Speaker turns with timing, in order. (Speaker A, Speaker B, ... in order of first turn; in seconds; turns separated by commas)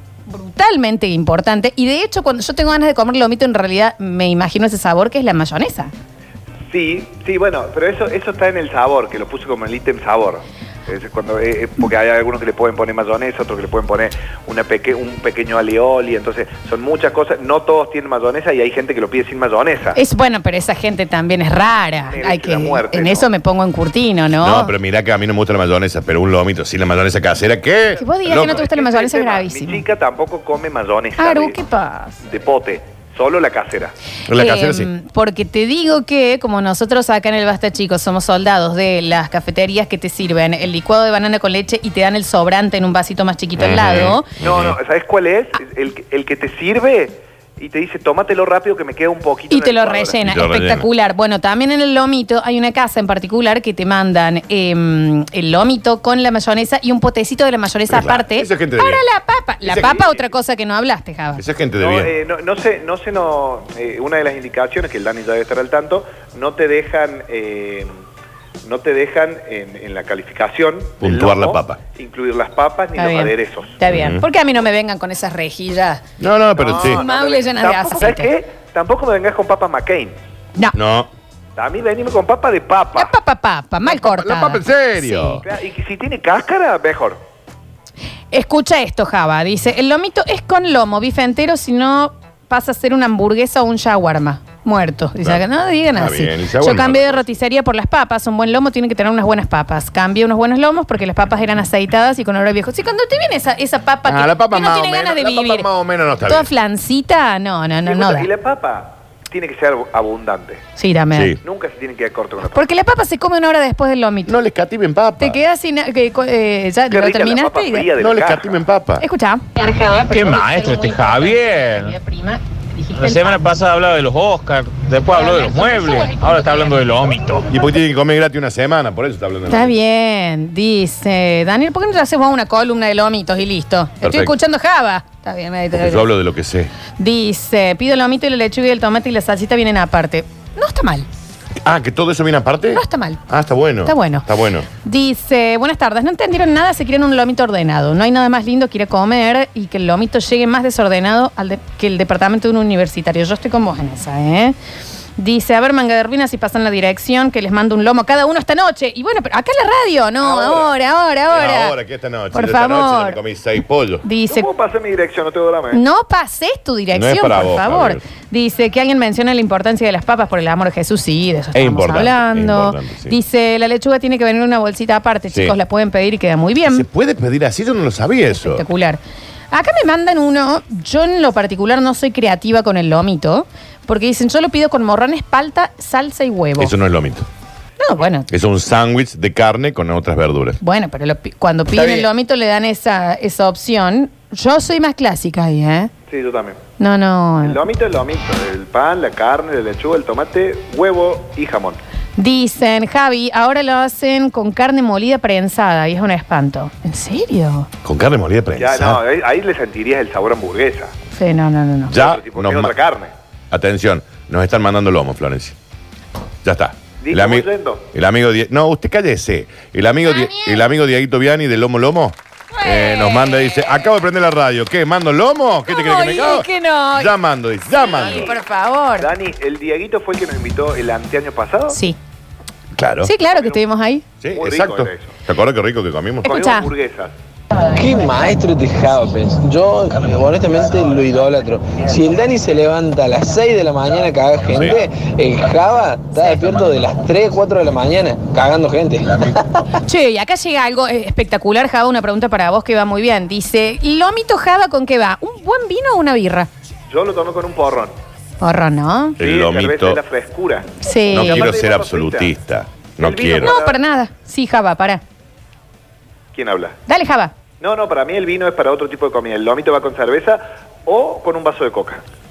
Speaker A: 0.3-5.9, Speaker B: 6.7-20.0, Speaker A: 19.9-24.7, Speaker B: 22.0-23.3, Speaker C: 24.4-28.6, Speaker A: 28.0-29.9, Speaker B: 28.2-31.6, Speaker A: 31.2-32.2, Speaker B: 32.2-34.0, Speaker C: 34.3-34.9, Speaker A: 34.4-44.3, Speaker C: 43.6-44.8, Speaker B: 44.4-50.2, Speaker A: 49.5-61.4, Speaker C: 50.2-50.9, Speaker C: 57.9-59.0, Speaker C: 59.6-60.0, Speaker B: 59.7-60.2, Speaker C: 61.4-62.1, Speaker B: 61.8-67.9, Speaker B: 68.6-73.8, Speaker C: 71.0-71.8, Speaker A: 73.0-76.0, Speaker C: 73.9-74.2, Speaker C: 76.2-77.0, Speaker B: 76.6-80.2, Speaker A: 76.7-78.3, Speaker C: 80.7-81.1, Speaker B: 81.6-83.1, Speaker A: 83.0-85.4, Speaker C: 83.9-85.4, Speaker B: 85.4-87.2, Speaker A: 88.3-105.7, Speaker C: 96.0-97.2, Speaker C: 104.1-106.5, Speaker A: 106.2-108.3, Speaker B: 107.9-110.6, Speaker A: 110.8-111.4, Speaker C: 111.1-111.4, Speaker B: 111.4-112.6, Speaker A: 112.5-114.3, Speaker C: 114.3-115.4, Speaker A: 115.2-117.9, Speaker B: 116.9-118.7, Speaker C: 118.0-119.0, Speaker A: 119.0-123.4, Speaker D: 120.1-122.0, Speaker D: 123.0-127.5, Speaker A: 125.3-126.2, Speaker C: 127.5-129.7, Speaker A: 129.5-136.1, Speaker C: 134.0-134.3, Speaker C: 135.7-136.7, Speaker A: 137.0-141.1, Speaker C: 141.6-144.7, Speaker A: 142.7-143.2, Speaker A: 143.8-144.3, Speaker A: 144.8-154.6, Speaker A: 155.2-161.8, Speaker B: 160.2-160.7, Speaker C: 161.3-164.1, Speaker A: 162.3-163.2, Speaker A: 164.0-164.5, Speaker B: 164.3-165.8, Speaker A: 165.7-176.9, Speaker C: 166.9-168.0, Speaker C: 171.6-173.2, Speaker C: 175.3-175.6, Speaker C: 176.7-178.6, Speaker A: 178.3-186.7, Speaker C: 186.6-187.3, Speaker A: 187.8-188.3, Speaker C: 188.3-190.6, Speaker A: 190.6-195.9, Speaker C: 191.8-192.0, Speaker B: 196.1-196.6, Speaker A: 196.8-197.6, Speaker B: 197.4-201.8, Speaker A: 202.2-207.7, Speaker C: 207.8-209.0, Speaker B: 208.6-210.9, Speaker A: 211.1-211.9, Speaker C: 211.9-212.7, Speaker B: 211.9-213.1, Speaker C: 213.5-215.6, Speaker C: 216.4-228.3, Speaker B: 217.0-217.8, Speaker A: 220.0-220.6, Speaker A: 222.5-223.9, Speaker A: 225.7-227.2, Speaker A: 227.8-229.1, Speaker B: 227.8-228.4, Speaker B: 229.0-231.8, Speaker A: 231.7-232.0, Speaker C: 232.8-233.1, Speaker A: 233.0-234.0, Speaker B: 233.3-233.6, Speaker C: 234.2-236.3, Speaker B: 234.3-235.1, Speaker A: 236.2-236.7, Speaker B: 236.2-237.1, Speaker E: 237.7-249.7, Speaker A: 249.8-256.5, Speaker B: 256.9-257.9, Speaker A: 258.4-259.2, Speaker C: 259.2-260.0, Speaker B: 259.2-262.3, Speaker A: 260.8-261.5, Speaker C: 261.1-263.6, Speaker B: 263.0-263.8, Speaker A: 263.4-265.0, Speaker B: 266.3-266.8, Speaker A: 266.9-267.3, Speaker B: 267.6-272.0